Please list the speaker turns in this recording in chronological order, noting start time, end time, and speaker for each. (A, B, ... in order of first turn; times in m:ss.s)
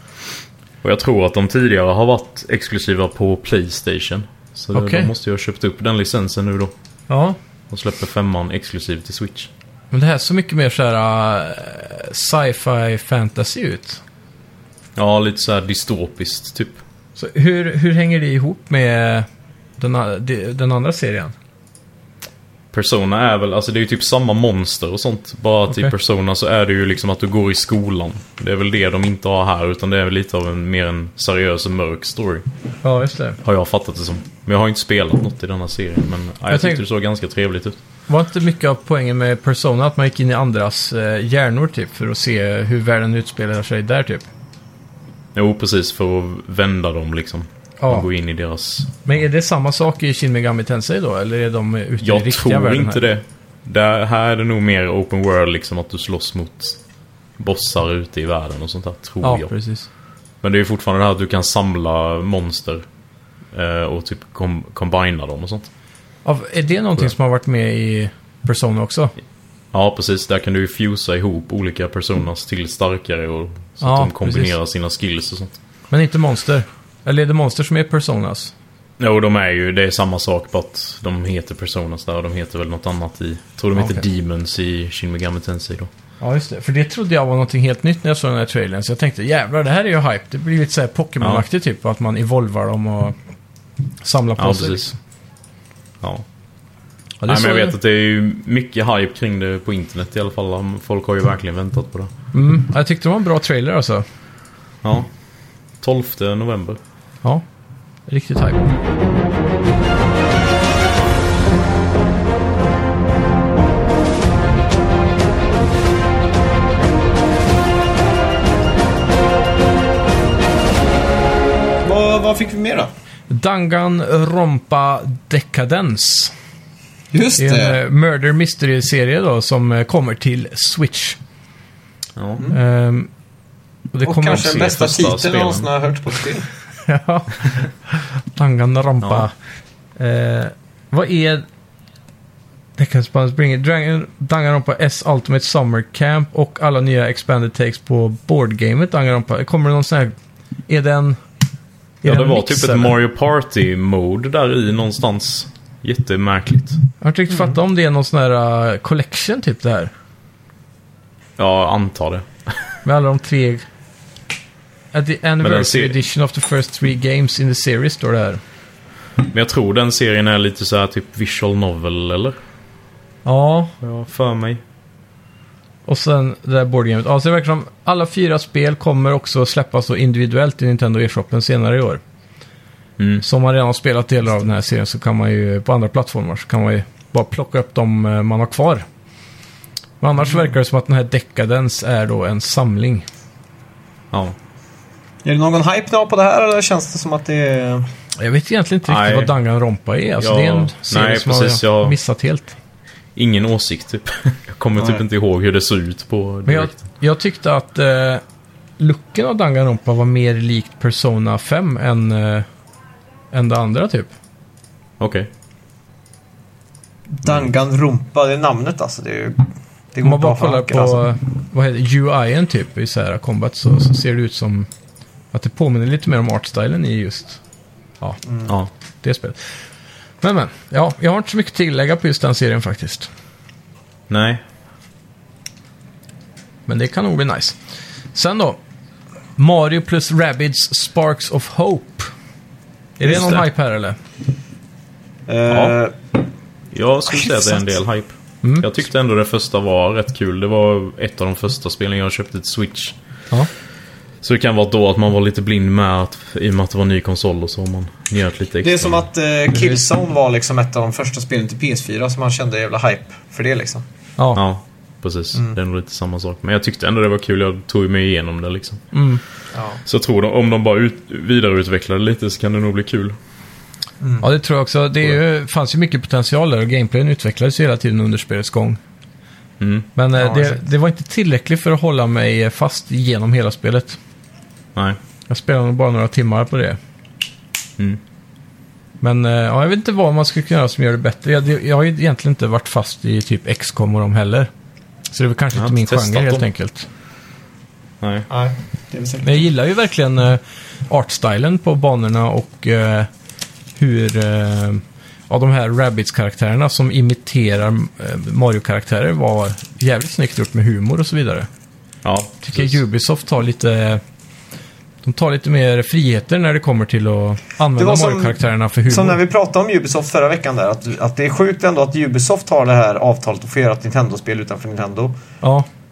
0:00.8-0:06.7 A
0:04.7-0:05.1 B
0:07.1-0:07.4 B
0:07.7-0:09.5 A
0:09.9-0:14.0 B
0:15.0-0:16.8 A
0:17.2-0:19.3 B
0:19.8-0:21.4 B
0:22.7-0:32.5 A
0:25.7-0:25.9 B
0:32.8-0:33.4 B
0:33.4-0:37.8 A
0:36.5-0:36.8 B
0:38.1-0:44.3 B
0:45.4-0:49.1 A
0:47.8-0:48.1 B
0:49.0-0:53.0 B
0:52.0-0:56.8 A
0:57.4-0:59.5 A
0:59.2-0:59.9 B
1:00.4-1:02.8 A
1:03.5-1:05.7 A
1:06.2-1:09.1 B
1:09.7-1:15.5 A
1:13.8-1:14.5 B
1:15.9-1:18.5 B
1:19.0-1:25.9 A
1:23.8-1:24.0 B
1:26.2-1:33.2 B
1:34.0-1:35.0 B
1:34.4-1:34.9 A
1:37.2-1:37.8 B
1:37.3-1:42.1 A
1:42.3-1:44.0 B
1:44.8-1:45.1 A
1:45.8-1:46.8 A
1:48.1-1:48.7 B
2:01.8-2:02.9 C
2:03.3-2:06.3 B
2:07.1-2:07.8 C
2:07.4-2:11.2 B
2:12.2-2:12.5 A
2:12.5-2:13.1 B
2:13.9-2:14.8 B
2:14.0-2:16.5 C
2:14.2-2:15.7 A
2:16.9-2:19.3 B
2:20.0-2:21.4 B
2:22.8-2:30.2 B
2:30.7-2:31.2 B
2:32.0-2:33.0 B
2:32.0-2:36.8 A
2:37.0-2:39.9 B
2:37.3-2:37.6 C
2:41.4-2:42.7 A
2:42.8-2:43.6 B
2:44.9-2:48.4 B
2:45.4-2:46.0 A
2:49.2-2:52.4 A
2:53.2-2:53.8 B
2:53.8-2:54.6 A
2:55.9-3:02.0 B
3:03.0-3:03.2 A
3:03.2-3:08.9 B
3:10.0-3:13.1 B
3:15.2-3:17.9 C
3:18.2-3:22.6 B
3:18.9-3:19.3 A
3:20.2-3:22.0 A
3:23.2-3:26.8 A
3:24.8-3:25.0 C
3:26.5-3:28.2 B
3:28.8-3:32.5 B
3:33.3-3:34.1 B
3:35.0-3:35.3 A
3:37.1-3:41.0 C
3:40.0-3:44.7 B
3:45.3-3:47.4 B
3:48.3-3:48.5 C
3:49.0-3:49.4 B
3:50.2-3:53.1 B
3:54.1-3:54.4 A
3:56.7-3:57.6 B
3:58.1-3:58.6 B
3:59.4-4:02.1 B
4:03.0-4:04.0 B
4:03.0-4:03.4 C
4:05.3-4:05.9 C
4:05.5-4:05.8 A
4:06.7-4:13.0 A
4:07.2-4:07.6 C
4:08.4-4:08.7 B
4:14.2-4:19.1 A
4:18.6-4:23.8 C
4:19.5-4:19.8 B
4:24.4-4:28.9 A
4:28.9-4:29.2 B
4:29.5-4:29.8 C
4:29.9-4:33.2 A
4:34.0-4:34.3 C
4:34.2-4:38.8 B
4:39.6-4:39.9 A
4:40.0-4:44.0 B
4:40.2-4:40.6 C
4:45.3-4:46.8 B
4:49.0-4:54.5 B
4:55.1-4:56.9 B
4:55.6-4:56.5 A
4:58.0-4:58.3 A
4:58.3-4:59.5 C
4:59.2-5:03.1 B
5:03.8-5:11.5 B
5:12.0-5:12.8 A
5:12.4-5:14.0 B
5:15.0-5:19.2 B
5:17.8-5:25.1 C